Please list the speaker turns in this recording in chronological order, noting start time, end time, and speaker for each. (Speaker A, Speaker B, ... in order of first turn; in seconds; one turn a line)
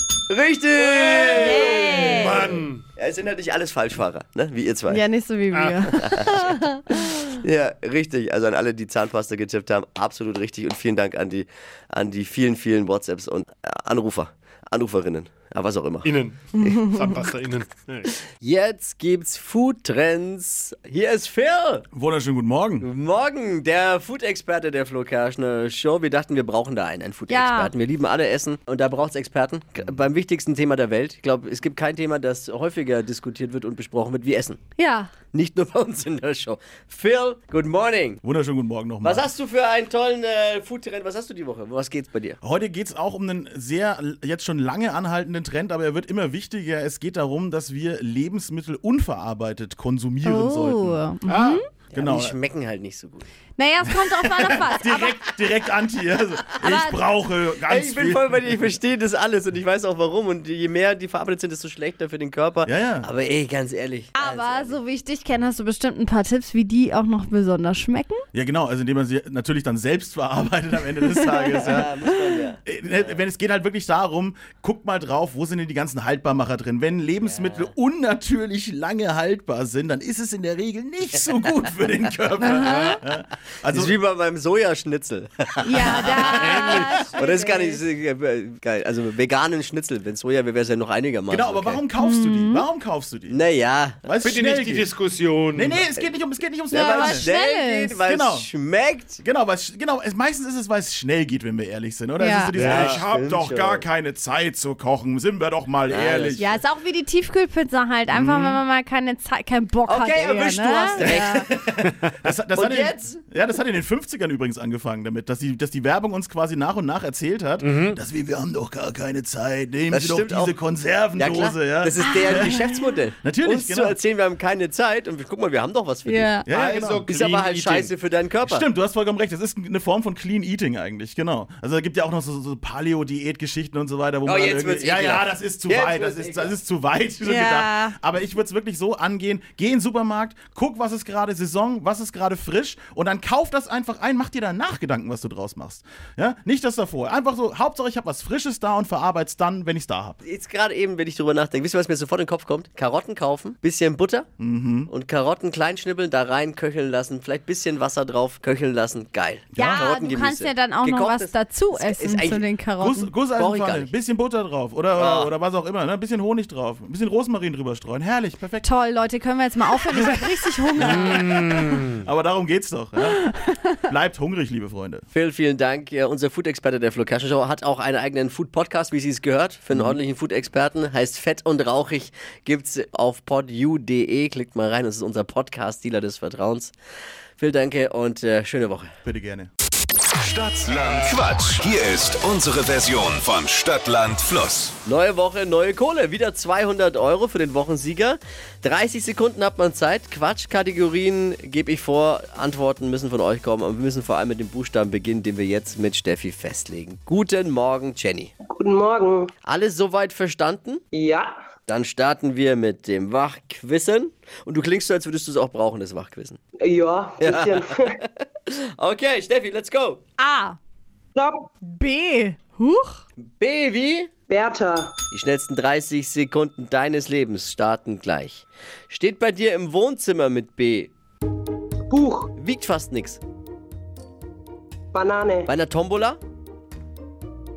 Speaker A: 0.3-5.0
Speaker B: 1.4-2.5
Speaker C: 2.1-2.8
Speaker B: 4.9-7.2
Speaker C: 5.5-5.8
Speaker A: 5.9-17.0
Speaker C: 16.0-18.1
Speaker A: 18.3-21.9
Speaker D: 21.9-22.9
Speaker A: 22.8-34.6
Speaker B: 27.3-27.7
Speaker B: 34.8-35.1
Speaker A: 35.3-38.2
Speaker D: 38.2-39.3
Speaker A: 39.0-42.4
Speaker D: 42.4-51.0
Speaker B: 50.2-51.6
Speaker C: 51.3-51.6
Speaker D: 51.9-52.4
Speaker A: 51.9-53.3
Speaker B: 53.6-55.3
Speaker D: 53.9-58.6
Speaker B: 56.6-57.0
Speaker A: 57.6-64.8
Speaker D: 62.6-63.1
Speaker B: 64.2-68.2
Speaker D: 68.3-71.9
Speaker B: 71.1-71.9
Speaker A: 71.6-73.2
Speaker D: 72.7-83.9
Speaker A: 77.2-77.7
Speaker A: 81.4-82.1
Speaker B: 82.5-82.9
Speaker C: 82.7-83.0
Speaker A: 83.6-91.8
Speaker B: 85.6-87.8
Speaker C: 86.1-87.0
Speaker D: 91.3-93.4
Speaker B: 92.0-92.7
Speaker A: 93.3-94.0
Speaker D: 94.0-94.9
Speaker C: 94.2-95.8
Speaker D: 95.5-97.3
Speaker B: 96.7-98.0
Speaker A: 96.7-99.2
Speaker D: 98.0-98.5
Speaker D: 99.2-106.5
Speaker B: 102.2-102.5
Speaker C: 102.5-103.8
Speaker A: 102.5-103.9
Speaker A: 105.9-106.6
Speaker B: 106.4-111.5
Speaker D: 108.1-108.6
Speaker A: 109.9-111.5
Speaker D: 111.1-122.7
Speaker A: 112.5-113.2
Speaker C: 117.6-118.0
Speaker A: 119.9-120.6
Speaker A: 121.2-126.5
Speaker B: 122.1-122.9
Speaker D: 123.2-124.0
Speaker B: 126.1-126.5
Speaker D: 126.5-127.1
Speaker C: 126.5-127.9
Speaker A: 127.0-128.7
Speaker D: 128.4-150.2
Speaker A: 134.2-136.6
Speaker B: 137.2-137.9
Speaker A: 150.2-154.3
Speaker D: 154.4-154.9
Speaker A: 154.9-162.5
Speaker D: 159.5-159.9
Speaker B: 159.6-163.1
Speaker D: 162.8-168.7
Speaker A: 163.3-163.9
Speaker A: 164.9-165.3
Speaker B: 168.6-171.7
Speaker D: 169.9-173.2
Speaker B: 173.1-173.8
Speaker D: 173.9-175.1
Speaker A: 175.1-186.7
Speaker A: 187.4-188.9
Speaker D: 189.1-189.5
Speaker E: 190.3-194.7
Speaker A: 194.8-208.3
Speaker F: 208.5-209.3
Speaker A: 209.4-210.8
Speaker F: 210.9-211.4
Speaker A: 211.7-216.4
Speaker F: 216.6-217.9
Speaker A: 217.2-217.7
Speaker A: 218.5-220.0
Speaker B: 220.2-220.6
Speaker F: 221.2-221.5
Speaker B: 221.7-223.0
Speaker A: 223.2-224.1
Speaker F: 224.3-225.0
Speaker A: 225.1-230.9
Speaker F: 231.9-232.3
Speaker A: 232.4-233.2
Speaker F: 234.9-235.5
Speaker A: 235.5-236.2